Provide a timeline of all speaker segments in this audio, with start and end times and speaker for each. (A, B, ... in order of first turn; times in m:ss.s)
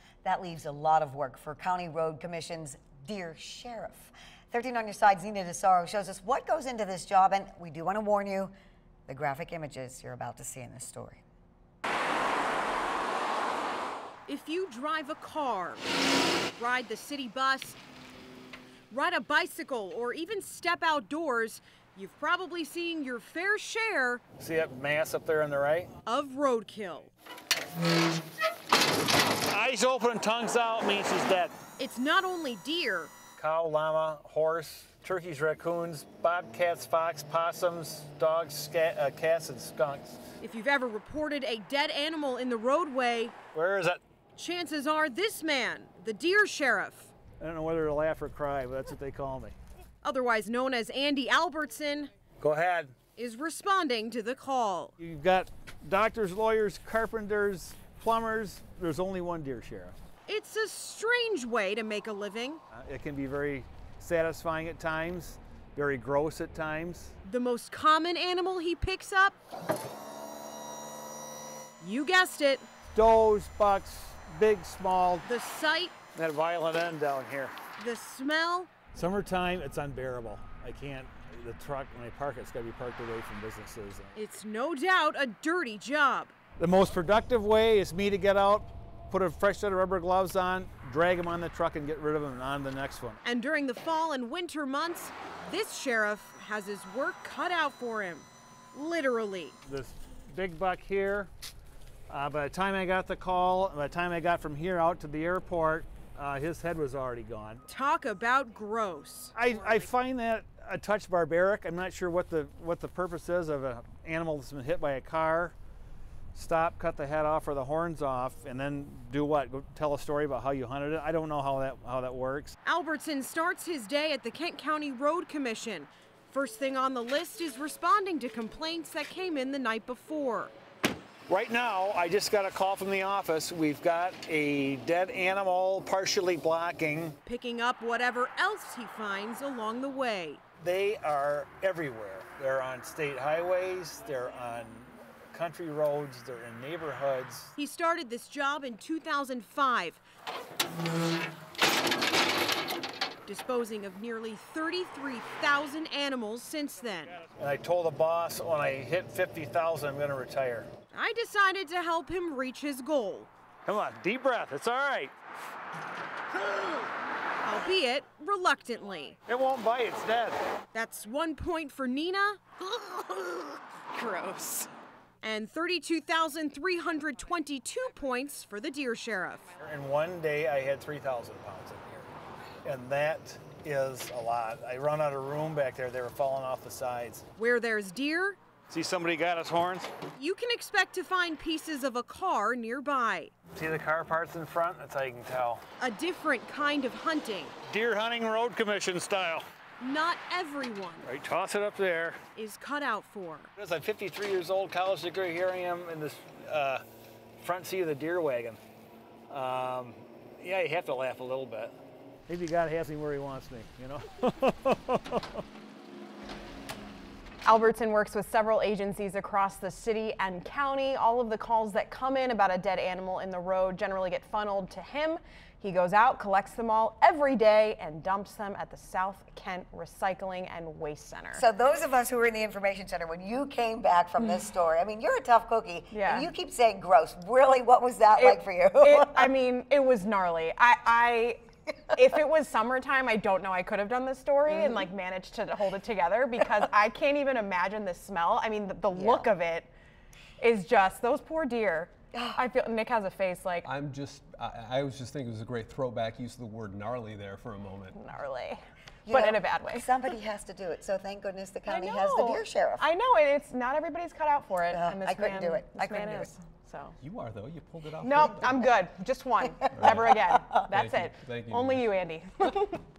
0:00.2-0:08.5 A
0:09.1-0:11.2 A
0:14.3-0:15.8 B
0:16.5-0:17.8 B
0:18.9-0:24.2 B
0:24.4-0:25.9 C
0:26.0-0:27.1 B
0:29.4-0:31.6 C
0:31.8-0:33.1 B
0:33.4-0:40.3 C
0:40.4-0:43.3 B
0:43.5-0:44.0 C
0:44.3-0:47.1 B
0:47.4-0:49.6 C
0:50.0-0:52.1 B
0:52.4-0:53.0 C
0:53.1-0:54.9 B
0:55.0-1:00.0 C
1:00.2-1:02.6 B
1:02.7-1:07.1 C
1:07.2-1:09.4 B
1:11.8-1:12.7 B
1:12.9-1:15.3 C
1:15.2-1:16.0 B
1:16.1-1:17.6 C
1:17.8-1:18.8 B
1:18.9-1:24.2 C
1:24.1-1:26.3 B
1:26.6-1:33.2 C
1:33.2-1:39.6 B
1:39.6-1:41.3 C
1:42.1-1:47.6 C
1:47.7-1:49.5 B
1:49.4-1:55.6 C
1:56.3-2:02.6 C
2:02.6-2:10.5 B
2:11.3-2:17.2 C
2:17.2-2:20.4 B
2:20.6-2:27.5 C
2:27.6-2:30.0 B
2:33.2-2:37.2 B
2:37.2-2:40.7 C
2:40.9-2:43.3 B
2:43.6-2:45.1 C
2:47.4-2:49.2 B
2:49.2-2:50.4 C
2:50.7-2:54.7 B
2:55.2-2:59.6 B
2:59.6-3:02.1 C
3:02.6-3:07.2 C
3:07.4-3:08.4 B
3:08.7-3:09.9 C
3:10.2-3:13.3 B
3:13.5-3:15.6 C
3:15.8-3:17.6 B
3:17.6-3:19.4 C
3:19.8-3:21.1 B
3:21.0-3:22.2 C
3:22.3-3:23.5 B
3:23.6-3:26.8 C
3:27.4-3:28.6 C
3:29.3-3:31.8 C
3:32.3-3:35.4 C
3:37.4-3:51.4 D
3:51.3-3:59.3 A
3:55.9-3:56.3 D
3:58.2-4:09.7 D
4:04.5-4:04.9 A
4:08.9-4:09.3 A
4:10.4-4:13.7 D
4:12.1-4:12.4 A
4:13.6-4:18.0 E
4:17.9-4:18.6 D
4:19.0-4:22.9 A
4:19.1-4:19.9 D
4:21.7-4:27.0 D
4:24.7-4:26.3 A
4:27.0-4:28.5 E
4:28.0-4:32.8 D
4:29.7-4:30.1 E
4:29.8-4:30.1 A
4:30.7-4:31.9 E